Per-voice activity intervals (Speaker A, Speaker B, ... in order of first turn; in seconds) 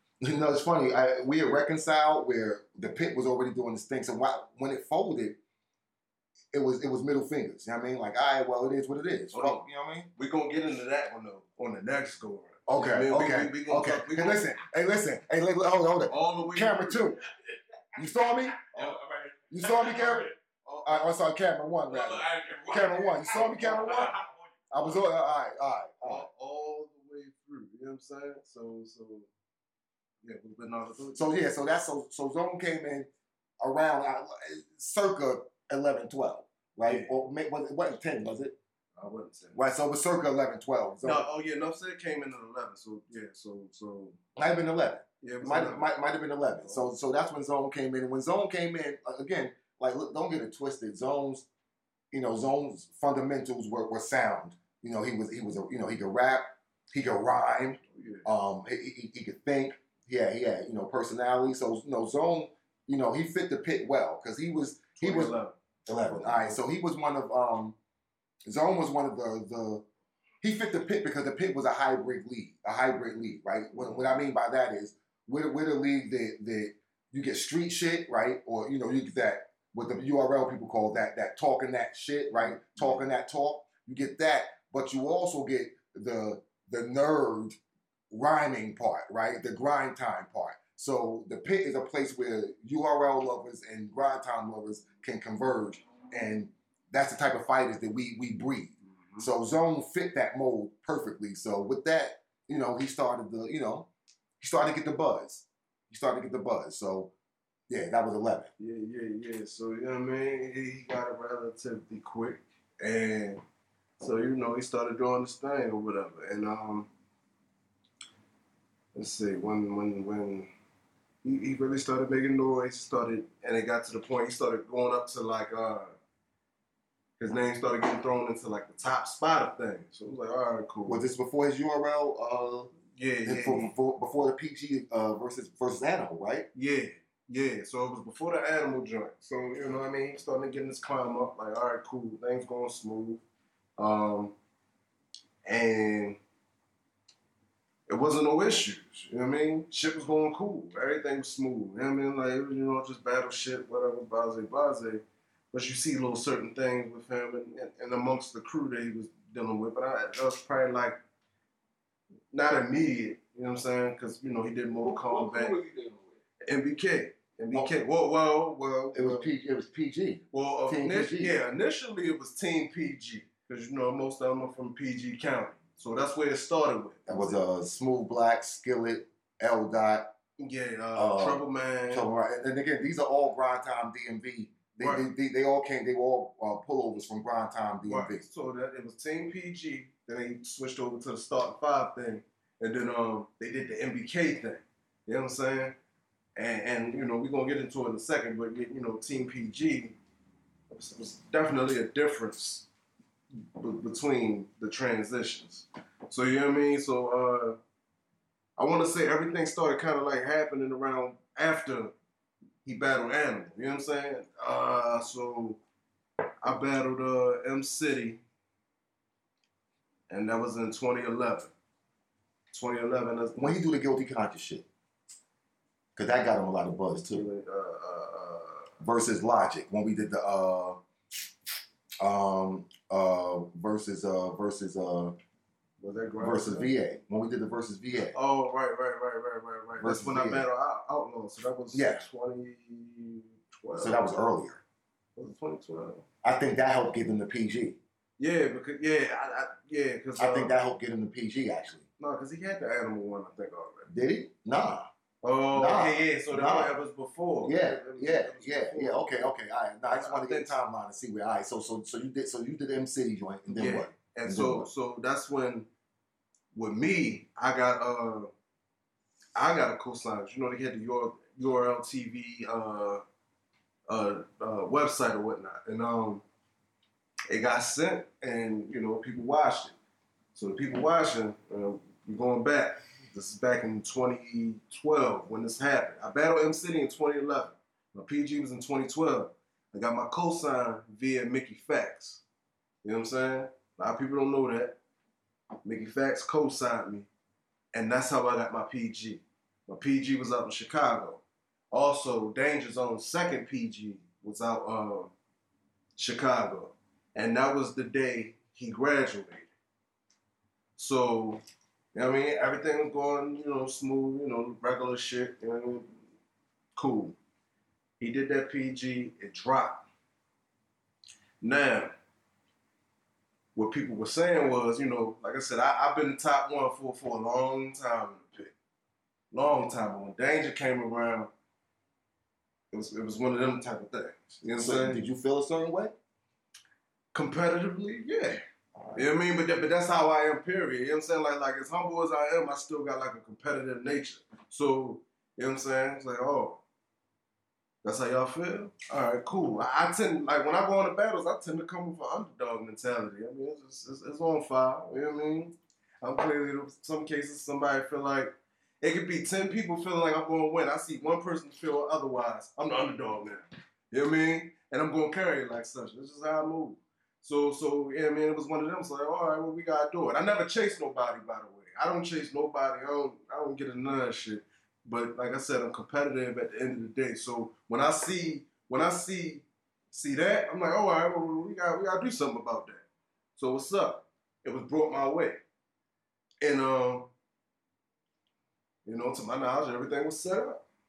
Speaker A: 0.2-5.4, 6.5-10.1, 12.7-17.2, 17.9-18.6, 19.5-20.3, 20.9-24.2, 24.7-26.3, 31.1-33.1, 33.6-38.6, 39.5-41.3, 44.4-51.5, 52.1-65.4, 65.9-67.8, 68.4-69.8, 70.4-87.6, 88.1-103.9, 104.4-107.1, 107.7-108.5, 130.9-132.7, 133.2-136.5, 168.9-171.4, 177.1-180.1, 180.9-188.2, 223.4-224.7, 225.9-227.2, 228.8-230.8, 232.0-235.2, 236.2-238.1, 239.8-240.5, 241.7-242.0, 243.8-244.6, 246.2-247.8, 250.2-251.8, 253.9-254.9, 255.5-256.8, 257.4-264.7, 334.5-335.9
Speaker B: 9.3-9.6, 10.2-14.5, 16.1-17.1, 18.7-19.0, 20.6-21.1, 26.0-29.3, 30.2-31.4, 36.9-37.1, 39.0-39.6, 41.0-44.2, 45.2-45.9, 46.6-46.9, 57.8-58.3, 65.0-66.6, 73.7-74.2, 82.4-83.0, 98.8-99.3, 108.6-113.4, 114.0-116.9, 118.9-120.5, 121.2-125.9, 127.2-131.0, 132.9-133.7, 136.5-143.2, 143.8-144.4, 145.4-146.2, 147.9-161.0, 162.3-165.6, 166.4-169.3, 170.3-177.4, 180.4-182.1, 184.8-185.1, 187.8-195.8, 196.4-199.9, 200.7-202.7, 203.6-207.6, 208.6-211.9, 212.6-215.6, 216.4-218.2, 220.1-221.5, 222.5-223.6, 227.1-228.7, 235.8-236.7, 238.1-244.0, 245.2-246.1, 248.2-250.6, 252.0-253.9, 255.2-259.3, 259.9-260.6, 263.5-265.7, 266.5-268.3, 269.4-273.0, 273.9-276.2, 277.3-279.8, 280.4-292.2, 292.8-294.8, 295.6-297.1, 297.7-305.1, 306.0-309.5, 310.8-311.4, 311.9-316.0, 316.8-317.2, 318.0-319.9, 321.4-321.9, 323.5-328.5, 329.3-331.3, 332.7-335.0, 337.1-338.4, 338.9-346.6, 347.8-382.9, 383.4-385.4, 386.4-387.1, 388.9-390.6
Speaker C: 18.7-20.3, 21.9-24.3, 164.8-166.1